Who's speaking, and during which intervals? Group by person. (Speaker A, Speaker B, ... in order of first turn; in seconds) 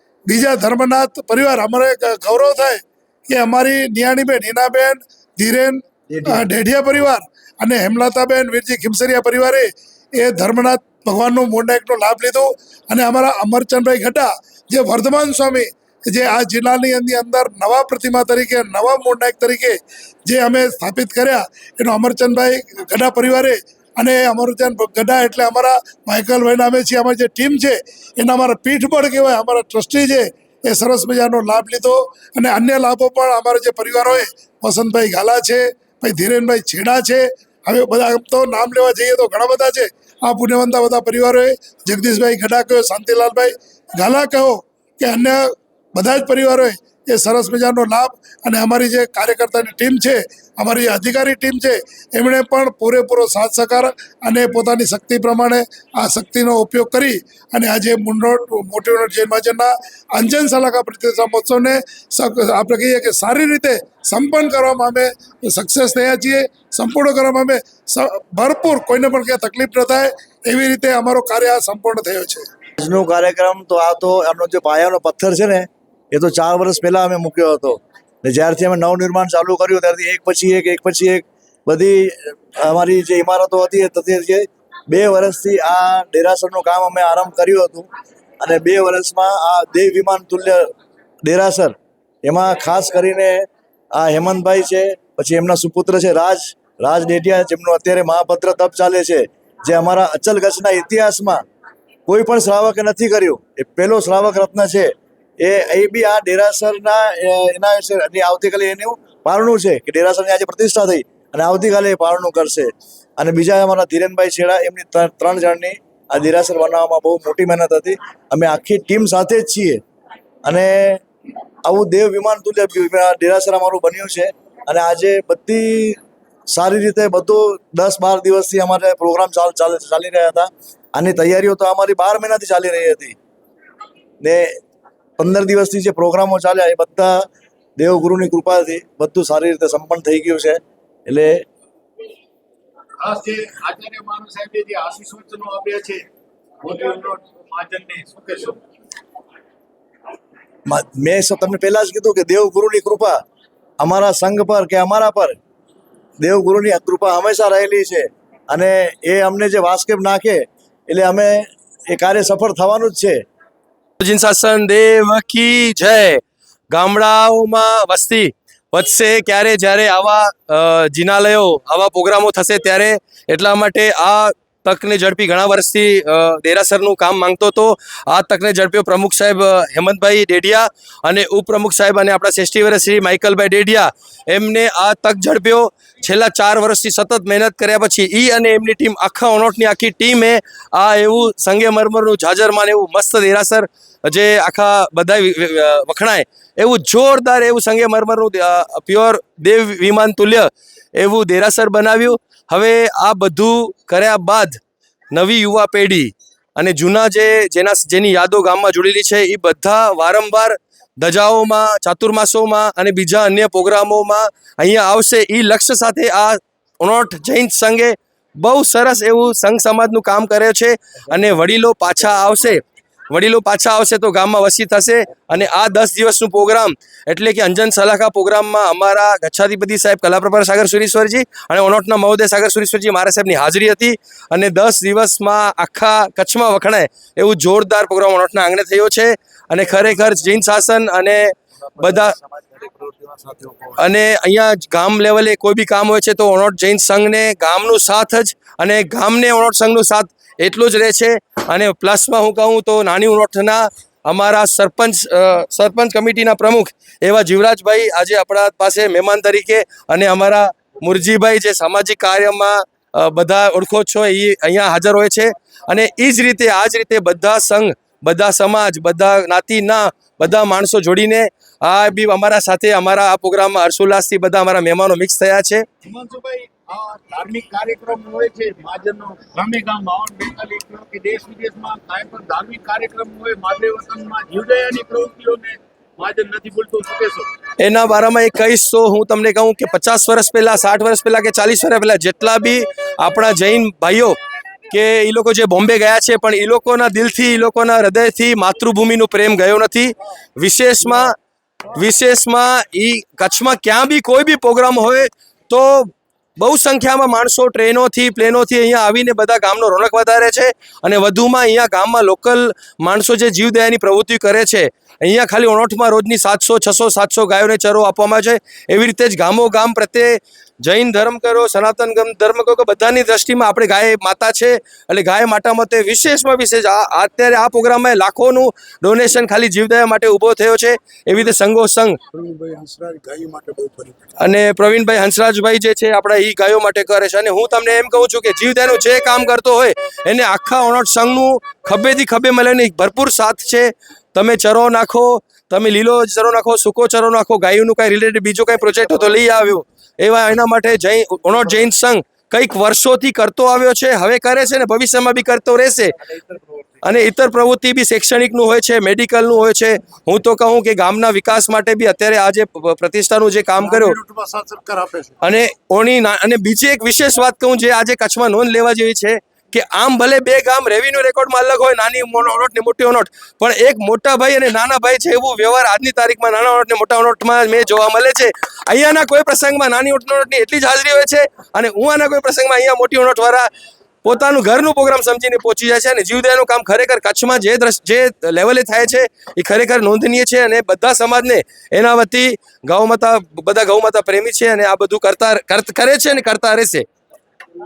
Speaker A: 0.3-72.4
Speaker B: 6.2-6.4, 72.8-87.8, 88.4-90.7, 91.2-93.4, 94.0-101.4, 102.1-119.8, 120.4-121.0, 121.6-126.0, 126.5-133.2, 134.2-134.5, 135.2-137.2, 137.8-141.4, 150.7-153.2, 153.8-155.3, 156.2-163.2
Speaker C: 143.0-146.1, 146.6-148.6, 241.8-243.7, 275.8-287.3, 332.1-334.1, 356.3-356.5, 363.6-365.1
Speaker D: 164.0-166.2, 166.7-204.6, 205.1-222.6, 223.1-242.1, 243.8-275.6, 287.6-294.1, 294.7-301.1, 301.8-331.9, 334.2-355.9, 356.8-364.0, 365.2-383.5, 384.0-396.8